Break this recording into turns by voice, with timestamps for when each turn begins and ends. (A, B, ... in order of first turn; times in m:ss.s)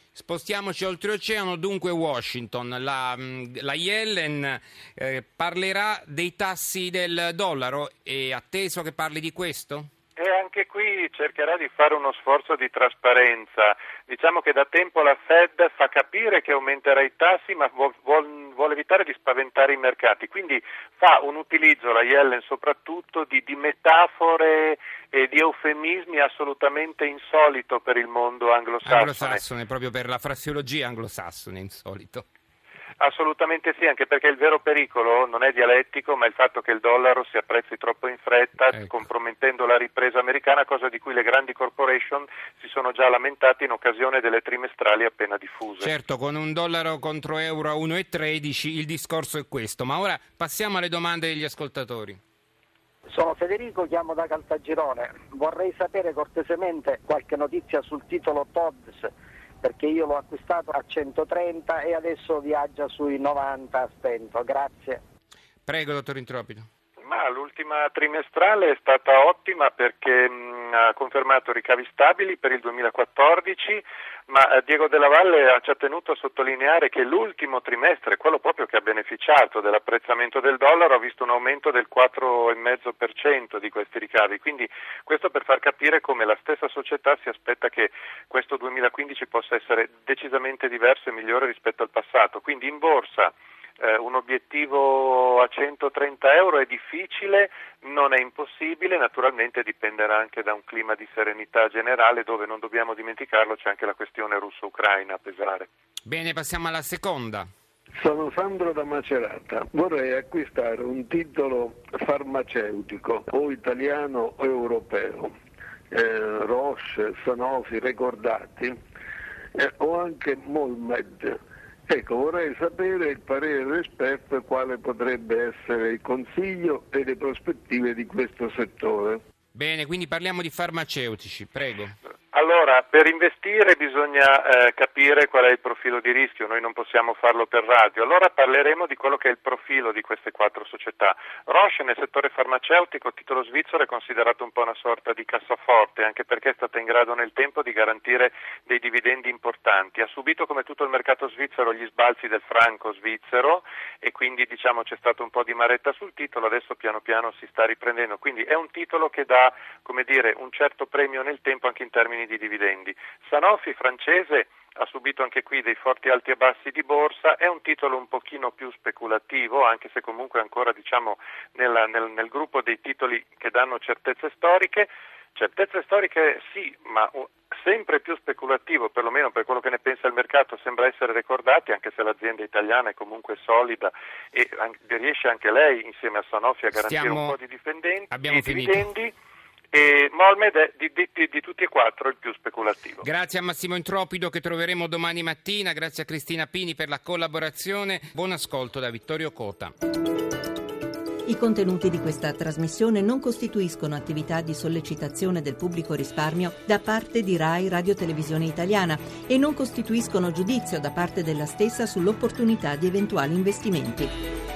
0:00.1-0:09.9 A
0:10.2-0:29.4 B
0:28.8-0:32.2 A
0:33.0-0:45.9 B
0:45.8-0:52.2 A
0:53.1-1:05.0 C
1:05.6-1:06.7 A
1:07.0-1:45.7 B
1:46.0-1:47.5 A
1:47.9-1:55.3 D
1:55.9-1:58.8 D
1:59.5-2:09.2 D
2:09.5-2:12.0 A
2:12.3-3:09.1 B
3:06.7-3:07.4 A
3:08.1-3:08.9 A
3:09.7-3:13.0 B
3:13.0-3:19.7 A
3:21.2-3:34.1 E